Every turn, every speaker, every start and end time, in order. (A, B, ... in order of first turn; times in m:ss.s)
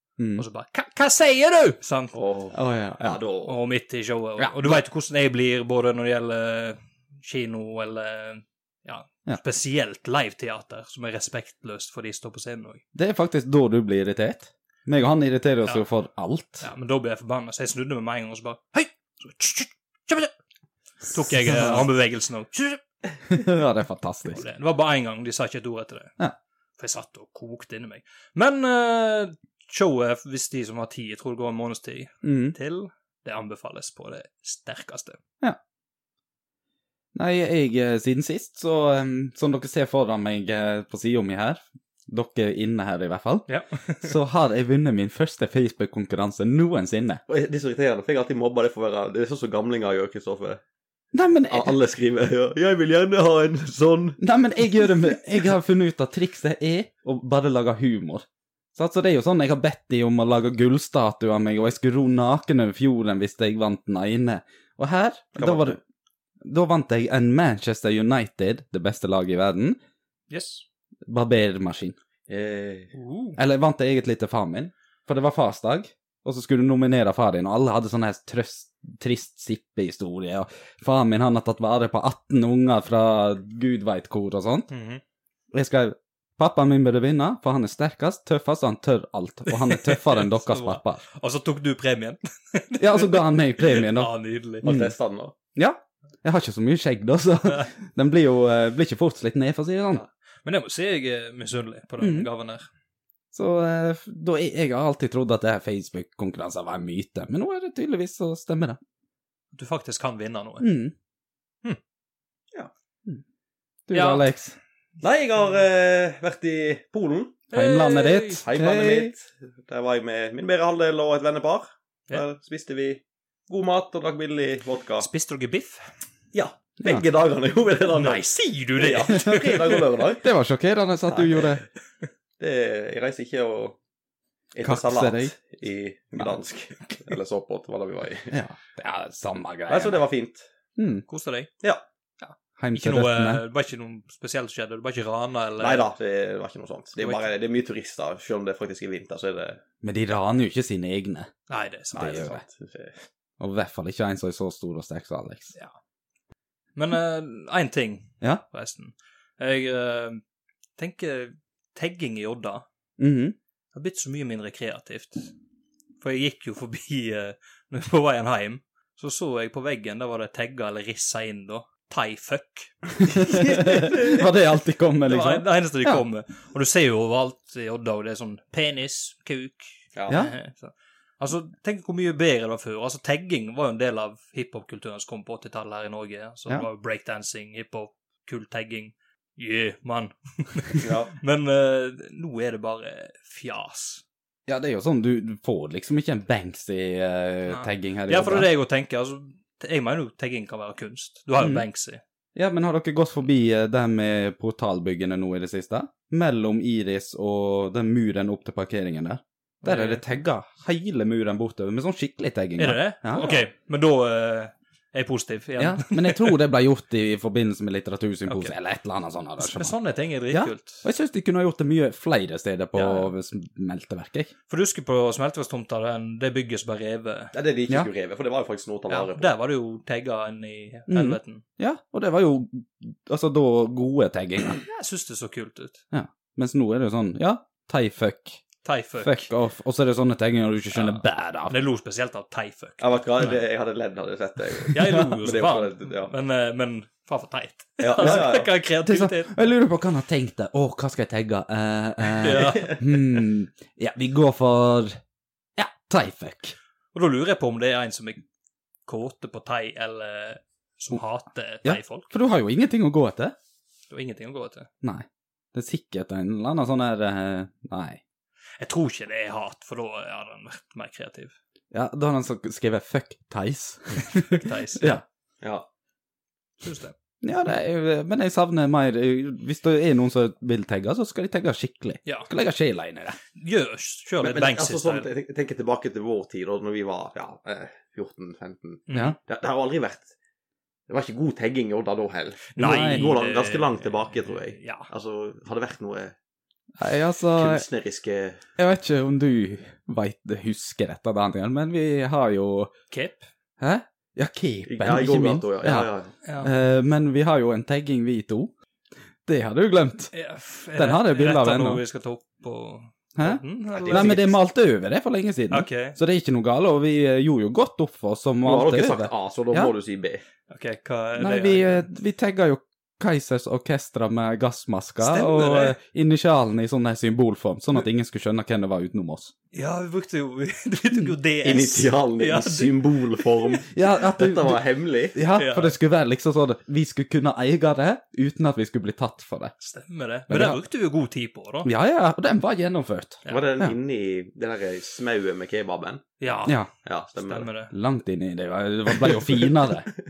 0:00.2-0:00.4 A
0:00.4-0:02.2 B
0:02.1-0:03.6 C
0:02.5-0:03.2 A
0:03.5-0:12.8 B
0:04.4-0:04.8 A
0:12.9-0:16.7 A
0:16.6-0:20.3 B
0:21.1-0:22.8 B
0:21.2-0:21.9 A
0:23.3-0:24.4 A
0:24.3-0:26.2 B
0:26.8-0:35.2 B
0:32.2-0:32.6 A
0:37.2-0:43.5 A
0:43.5-0:44.1 B
0:44.0-0:47.2 A
0:47.3-0:50.6 C
0:51.1-0:51.8 A
0:51.5-0:54.2 C
0:54.2-1:05.8 A
1:05.4-1:05.8 C
1:06.4-1:09.8 A
1:10.3-1:10.6 B
1:11.1-1:12.0 A
1:12.3-1:12.9 C
1:12.9-1:13.4 B
1:13.4-1:24.7 A
1:24.7-1:25.0 B
1:25.5-1:31.0 A
1:29.5-1:34.7 B
1:32.8-1:34.1 A
1:34.6-1:35.0 A
1:34.6-1:35.3 C
1:35.6-1:40.0 A
1:40.4-1:42.6 B
1:42.0-1:42.3 A
1:43.3-1:48.8 A
1:49.5-1:50.7 B
1:50.6-1:50.9 A
1:53.9-1:54.6 A
1:53.9-1:54.3 B
1:55.0-1:57.4 C
1:57.5-1:58.4 B
1:57.5-1:59.1 A
1:58.4-2:05.1 C
2:05.0-2:05.8 B
2:06.3-2:10.3 C
2:07.9-2:09.9 B
2:10.2-2:11.6 A
2:11.1-2:11.6 C
2:12.4-2:13.8 C
2:14.5-2:18.4 C
2:14.6-2:15.3 A
2:18.3-2:20.0 A
2:19.7-2:20.5 C
2:20.8-2:21.1 A
2:21.1-2:21.5 B
2:22.2-2:25.9 B
2:22.6-2:23.4 A
2:25.6-2:29.6 C
2:27.0-2:27.3 B
2:29.8-2:31.3 A
2:31.5-2:32.4 B
2:32.0-2:33.0 C
2:32.0-2:32.4 A
2:33.4-2:35.5 A
2:36.8-2:40.2 B
2:40.8-2:42.7 B
2:43.0-2:43.4 A
2:43.7-2:45.3 B
2:46.0-2:54.3 B
2:53.0-2:56.0 A
2:55.1-3:14.0 B
3:00.0-3:00.2 C
3:00.1-3:00.3 A
3:10.8-3:11.1 C
3:14.5-3:18.5 A
3:17.5-3:22.0 B
3:21.4-3:21.7 A
3:22.4-3:33.4 A
3:29.6-3:30.0 B
3:32.6-3:36.4 B
3:35.6-3:39.7 A
3:38.3-3:38.5 B
3:39.4-3:40.9 B
3:40.3-3:44.3 A
3:42.8-3:43.1 B
3:44.5-3:47.4 B
3:47.3-3:49.4 C
3:48.9-3:51.4 B
3:50.9-3:54.6 A
3:54.6-3:55.8 B
3:55.9-3:58.4 A
3:58.6-3:59.3 B
3:59.0-4:01.6 A
4:00.7-4:03.4 B
4:02.8-4:06.1 C
4:04.7-4:09.4 B
4:07.8-4:08.5 C
4:08.0-4:08.3 A
4:08.8-4:15.0 A
4:12.2-4:12.9 B
4:12.3-4:12.8 C
4:15.6-4:16.6 A
4:16.9-4:18.2 B
4:18.9-4:22.1 B
4:21.6-4:23.4 A
4:23.9-4:24.7 B
4:24.8-4:28.0 A
4:28.6-4:31.3 B
4:31.7-4:35.0 A
4:34.0-4:35.0 B
4:35.4-4:35.7 C
4:36.6-4:37.0 B
4:37.2-4:43.2 A
4:42.0-4:42.3 B
4:43.4-4:45.1 B
4:44.2-4:50.1 C
4:48.9-4:49.2 B
4:50.9-4:56.2 C
4:52.5-4:54.9 B
4:52.6-4:53.1 A
4:56.8-4:57.7 A
4:57.3-4:58.4 C
4:58.6-5:02.7 A
5:02.9-5:03.2 B
5:03.6-5:05.9 A
5:04.7-5:06.1 C
5:06.2-5:06.5 B
5:06.4-5:08.5 A
5:09.3-5:10.1 A
5:10.1-5:14.4 B
5:10.8-5:11.8 A
5:13.2-5:19.7 A
5:13.8-5:14.2 C
5:15.5-5:16.0 B
5:18.4-5:20.2 C
5:20.5-5:21.9 B
5:21.2-5:29.3 A
5:25.0-5:25.8 B
5:29.5-5:33.6 B
5:31.4-5:35.2 C
5:33.7-5:34.6 A
5:35.1-5:39.5 A
5:35.3-5:35.8 B
5:39.6-5:41.7 B
5:40.3-5:40.6 A
5:41.6-5:43.8 A
5:43.2-5:43.5 B
5:43.3-5:46.0 C
5:46.2-5:46.6 B
5:46.8-5:47.5 C
5:47.2-5:47.7 B
5:47.7-5:49.9 A
5:49.0-5:49.5 C